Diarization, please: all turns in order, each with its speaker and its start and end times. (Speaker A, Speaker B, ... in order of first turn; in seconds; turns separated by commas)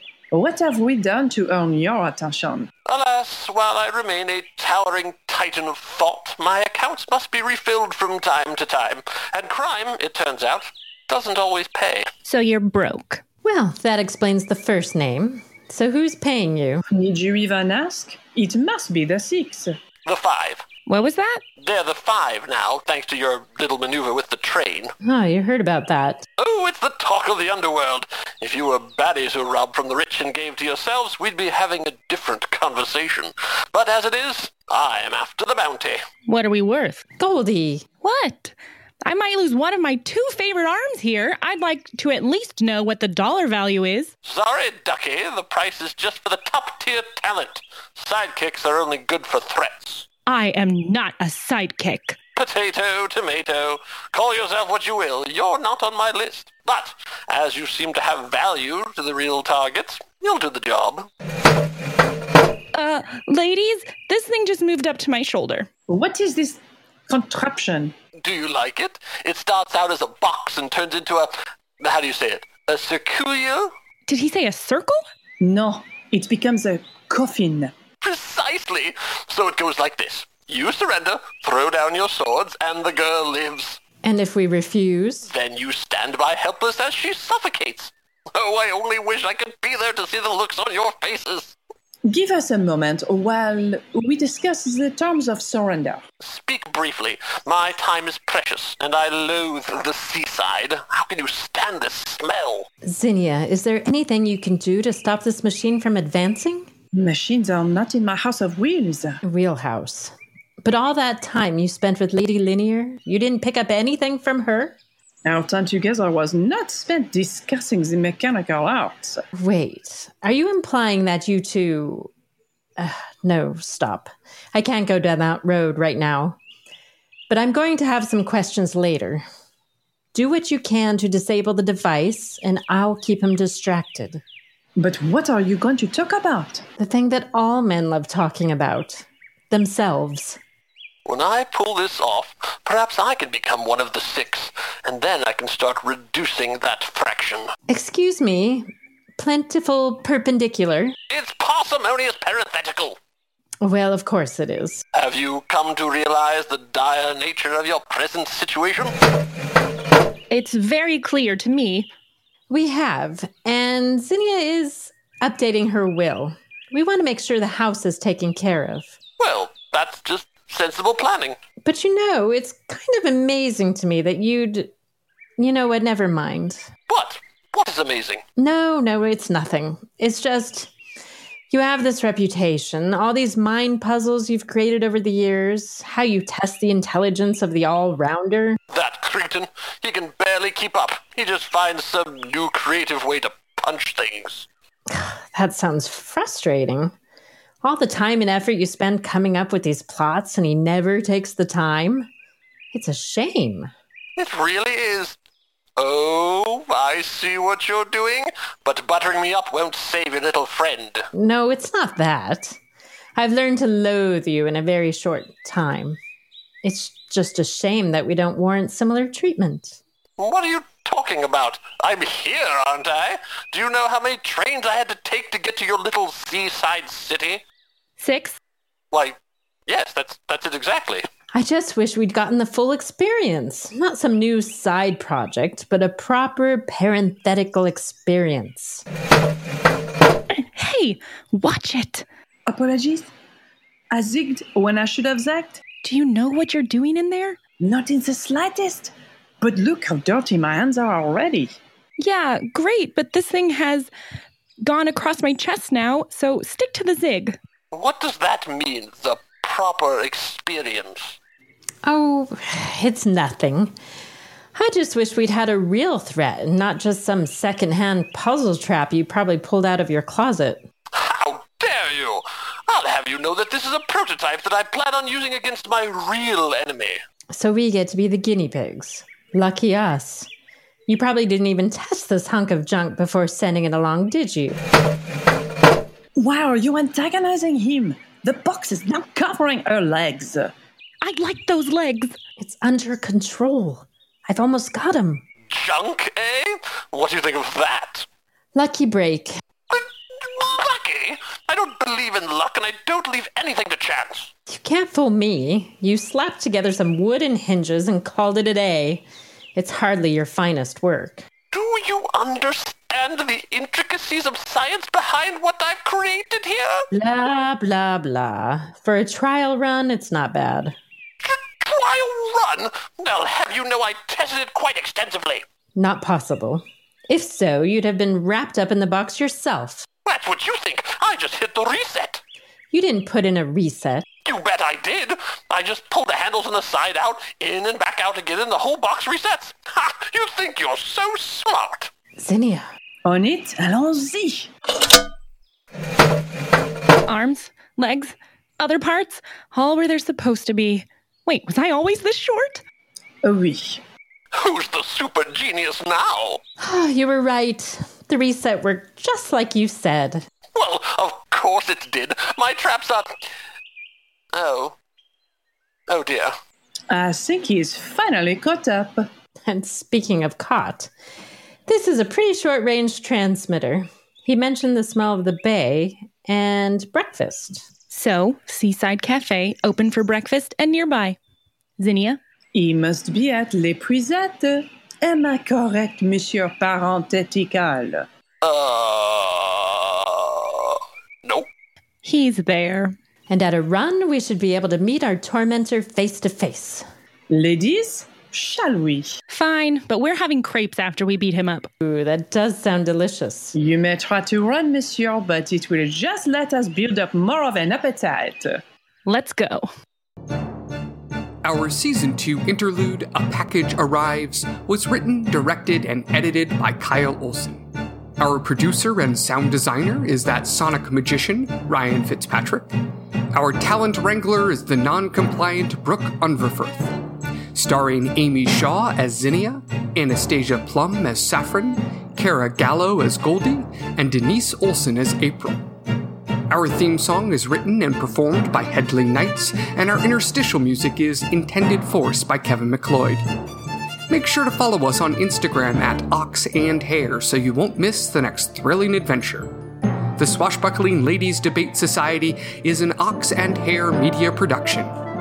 Speaker A: 0.3-2.7, Speaker B: 2.9-12.1, Speaker C: 12.2-13.2, Speaker D: 13.4-16.8, Speaker A: 16.9-19.7, Speaker B: 20.1-20.6, Speaker C: 20.9-21.4, Speaker B: 21.6-24.9, Speaker D: 25.0-26.3, Speaker B: 26.4-36.0, Speaker C: 36.3-37.0, Speaker D: 37.2-37.9, Speaker C: 38.0-44.1, Speaker B: 44.2-50.1, Speaker C: 50.3-52.2, Speaker B: 52.4-61.1, Speaker C: 62.7-65.7, Speaker A: 65.9-67.9, Speaker B: 68.2-73.7, Speaker C: 74.1-75.0, Speaker A: 75.4-77.7, Speaker B: 78.0-83.8, Speaker D: 84.0-85.3, Speaker B: 85.3-91.6, Speaker A: 92.0-96.0, Speaker B: 96.2-102.7, Speaker D: 102.8-106.7, Speaker A: 106.9-109.2, Speaker D: 109.2-114.8, Speaker A: 115.2-119.2, Speaker D: 119.4-122.1, Speaker D: 122.8-126.4, Speaker D: 127.3-129.2, Speaker D: 130.1-134.2, Speaker A: 134.8-136.6, Speaker D: 136.8-140.4, Speaker B: 141.1-147.5, Speaker D: 147.7-151.0, Speaker B: 151.1-153.0, Speaker D: 153.6-154.8, Speaker B: 154.9-159.0, Speaker C: 160.3-161.9, Speaker D: 162.5-169.0, Speaker B: 169.2-171.4, Speaker D: 171.6-174.7, Speaker D: 175.4-176.7, Speaker B: 176.9-178.2, Speaker D: 178.4-180.7, Speaker D: 181.5-188.6, Speaker B: 188.7-194.5, Speaker D: 194.9-196.9, Speaker D: 197.6-202.1, Speaker D: 202.7-203.7, Speaker B: 204.2-205.2, Speaker B: 205.8-211.0, Speaker D: 211.1-212.6, Speaker D: 213.2-216.0, Speaker D: 216.6-219.8, Speaker B: 220.2-227.4, Speaker C: 228.0-228.4, Speaker B: 228.9-231.0, Speaker D: 231.3-238.8, Speaker C: 240.4-242.1, Speaker A: 242.5-243.1, Speaker A: 243.9-245.6, Speaker C: 245.8-247.4, Speaker A: 247.6-251.5, Speaker C: 252.0-253.9, Speaker C: 254.6-257.4, Speaker B: 257.7-261.2, Speaker D: 261.9-263.7, Speaker D: 264.6-270.6, Speaker B: 271.0-277.0, Speaker D: 277.3-280.3, Speaker D: 280.9-284.6, Speaker A: 286.2-290.5, Speaker C: 291.0-292.2, Speaker D: 292.4-295.2, Speaker B: 295.5-298.1, Speaker D: 298.6-299.3, Speaker B: 299.7-304.3, Speaker D: 304.5-309.1, Speaker D: 309.6-311.3, Speaker B: 311.5-316.8, Speaker D: 316.9-320.8, Speaker B: 321.2-325.5, Speaker D: 325.8-329.9, Speaker B: 330.1-332.2, Speaker D: 332.7-334.1, Speaker B: 334.3-341.9, Speaker D: 342.2-342.6, Speaker A: 343.1-344.5, Speaker C: 347.1-352.6, Speaker A: 353.2-353.8, Speaker B: 354.3-356.4, Speaker D: 356.6-360.2, Speaker B: 360.6-363.2, Speaker B: 364.3-364.8, Speaker B: 365.9-366.3, Speaker A: 366.9-369.1, Speaker D: 369.5-370.9, Speaker D: 371.7-377.7, Speaker C: 377.9-381.2, Speaker C: 381.8-382.2, Speaker A: 382.6-388.1, Speaker B: 388.4-391.5, Speaker C: 392.0-392.9, Speaker D: 393.3-396.9, Speaker A: 397.3-399.1, Speaker C: 399.3-401.7, Speaker D: 401.8-403.6, Speaker A: 403.5-408.6, Speaker C: 409.1-409.7, Speaker E: 411.4-417.6, Speaker E: 418.2-422.7, Speaker E: 423.3-426.9, Speaker E: 427.5-435.6, Speaker E: 436.5-443.2, Speaker E: 444.1-449.5, Speaker E: 450.2-454.9